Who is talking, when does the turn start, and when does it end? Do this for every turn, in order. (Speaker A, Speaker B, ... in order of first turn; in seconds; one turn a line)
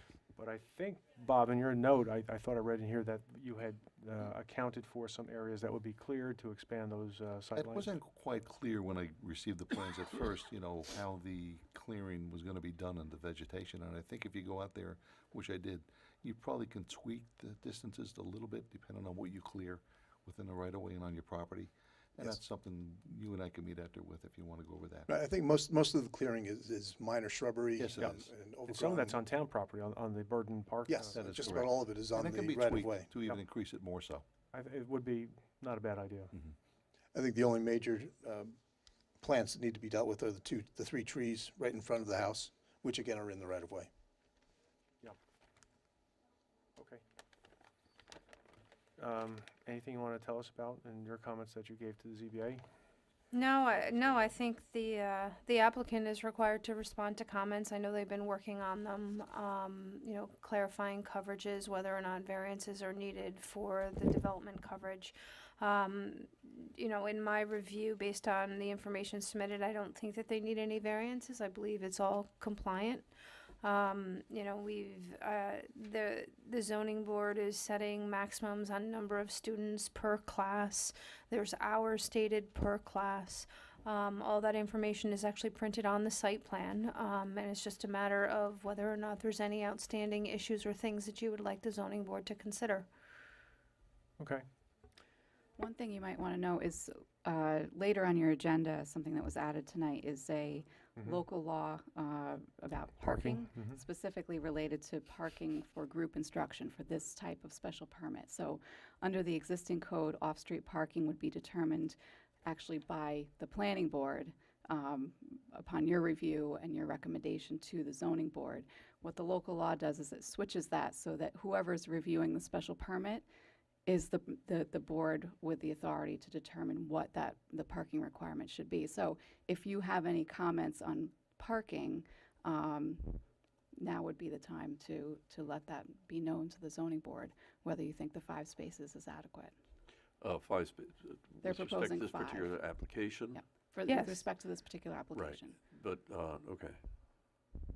Speaker A: 0.3-7.9
Speaker B: 7.5-25.1
Speaker C: 25.1-29.2
Speaker B: 27.8-28.3
Speaker A: 28.7-31.5
Speaker C: 30.9-33.1
Speaker B: 31.3-34.3
Speaker A: 34.5-36.3
Speaker C: 37.1-38.5
Speaker C: 39.2-43.9
Speaker A: 46.8-47.0
Speaker A: 49.0-52.6
Speaker D: 53.3-73.1
Speaker A: 53.7-54.3
Speaker D: 73.6-92.9
Speaker A: 94.2-94.5
Speaker E: 95.6-123.2
Speaker A: 103.0-103.8
Speaker E: 123.9-133.2
Speaker E: 133.8-139.5
Speaker F: 140.2-143.4
Speaker E: 141.4-142.6
Speaker E: 143.3-145.6
Speaker D: 143.9-144.2
Speaker F: 145.1-146.8